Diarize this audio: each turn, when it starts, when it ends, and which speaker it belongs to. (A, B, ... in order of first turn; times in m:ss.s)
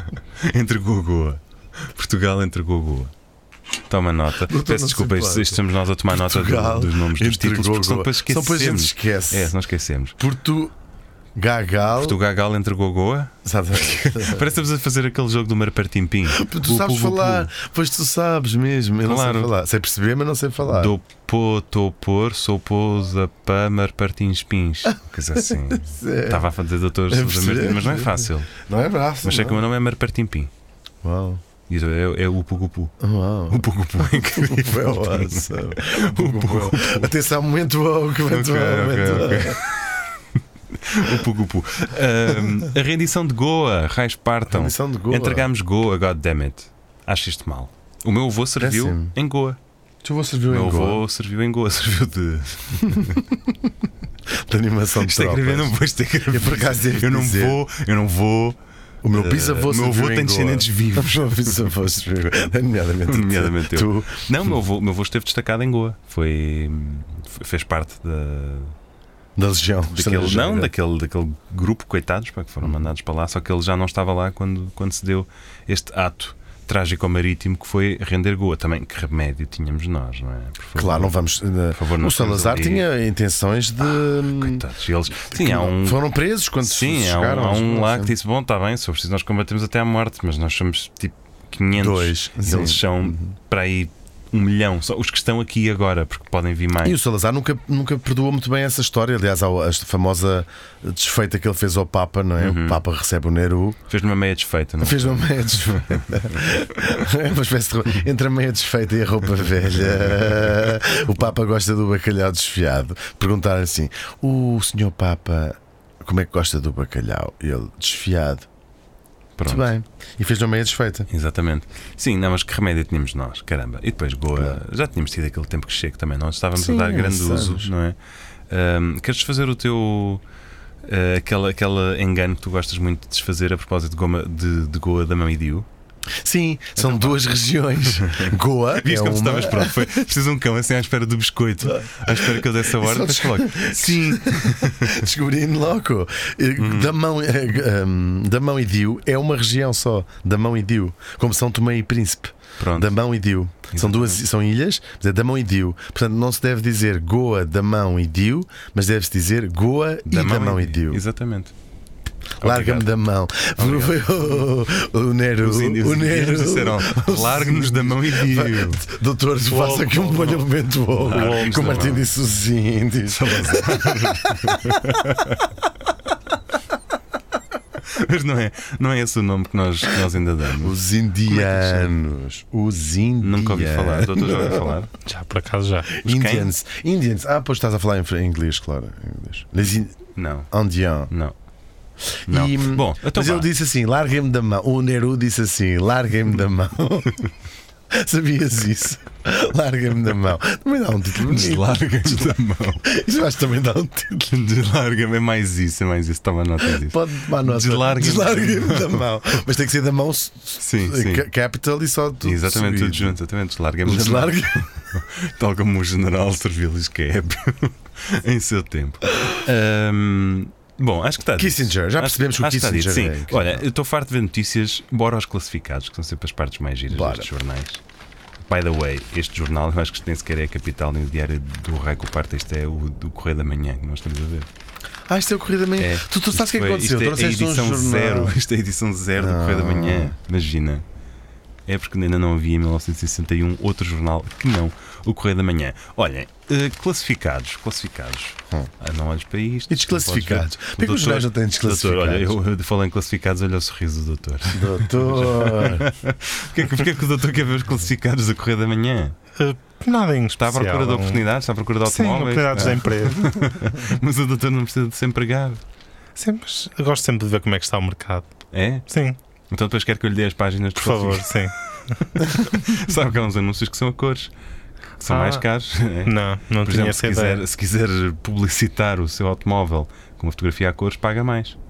0:00.4-0:03.1 A
0:03.9-0:10.2 A
0:04.5-0:09.5 B
0:10.2-0:10.7 B
0:11.4-0:12.2 B
0:12.0-0:17.5 A
0:13.4-0:14.5 B
0:16.3-0:20.9 B
0:19.0-0:19.5 A
0:20.6-0:28.5 A
0:25.4-0:26.5 B
0:27.1-0:29.6 B
0:29.2-0:30.5 A
0:31.0-0:31.4 B
0:31.7-0:37.1 A
0:33.0-0:39.6 B
0:38.3-0:40.0 A
0:40.7-0:49.6 A
0:44.5-0:45.5 B
0:48.6-0:49.1 B
0:50.0-0:51.0 B
0:50.5-0:53.2 A
0:52.9-0:53.3 B
0:54.3-0:55.8 B
0:55.0-0:58.6 A
0:56.3-0:57.6 B
0:59.0-1:04.5 B
0:59.1-1:01.7 A
1:03.1-1:08.8 A
1:09.4-1:10.7 B
1:09.9-1:21.2 A
1:20.8-1:24.7 B
1:21.7-1:22.9 A
1:24.1-1:26.0 A
1:25.2-1:28.1 B
1:26.6-1:37.0 A
1:31.8-1:33.3 B
1:36.8-1:43.8 B
1:42.4-1:42.8 A
1:43.9-1:46.4 A
1:44.8-1:58.5 B
1:49.8-1:50.7 A
1:59.4-1:59.7 A
1:59.5-2:01.1 B
2:01.1-2:08.0 A
2:04.3-2:04.6 B
2:06.6-2:07.7 B
2:08.5-2:10.2 A
2:10.8-2:15.7 A
2:16.2-2:20.0 B
2:16.8-2:17.2 A
2:18.0-2:25.0 A
2:21.6-2:41.0 B
2:26.6-2:27.0 A
2:32.6-2:33.0 A
2:33.7-2:34.2 A
2:40.1-2:41.5 A
2:42.4-2:54.6 B
2:42.4-2:42.9 A
2:43.6-2:44.5 A
2:45.4-2:48.8 A
2:49.5-2:50.5 C
2:51.0-2:52.0 C
2:51.0-2:52.1 A
2:53.1-2:55.5 A
2:57.9-3:00.8 A
3:00.6-3:04.7 B
3:01.3-3:01.9 A
3:03.2-3:04.9 A
3:05.0-3:05.9 C
3:05.9-3:10.0 B
3:06.0-3:06.5 A
3:10.2-3:10.5 A
3:10.5-3:11.1 B
3:11.1-3:11.4 A
3:12.2-3:13.5 A
3:12.2-3:17.3 B
3:17.9-3:24.3 B
3:21.2-3:22.8 A
3:24.2-3:29.0 A
3:26.6-3:33.2 B
3:30.6-3:31.3 A
3:32.2-3:47.8 A
3:33.8-3:34.7 B
3:41.4-3:43.6 B
3:46.9-3:47.3 B
3:48.5-3:54.5 A
3:55.1-3:58.4 B
3:55.8-4:00.8 A
3:59.2-4:00.2 B
4:01.7-4:19.2 A
4:09.7-4:12.4 B
4:14.5-4:15.9 B
4:19.4-4:21.2 C
4:20.4-4:25.6 A
4:21.8-4:23.7 C
4:26.2-4:28.3 C
4:28.5-4:28.9 A
4:28.9-4:29.2 C
4:29.5-4:31.4 A
4:30.8-4:32.6 C
4:32.2-4:34.3 A
4:35.0-4:41.6 A
4:35.1-4:35.4 C
4:36.1-4:37.4 C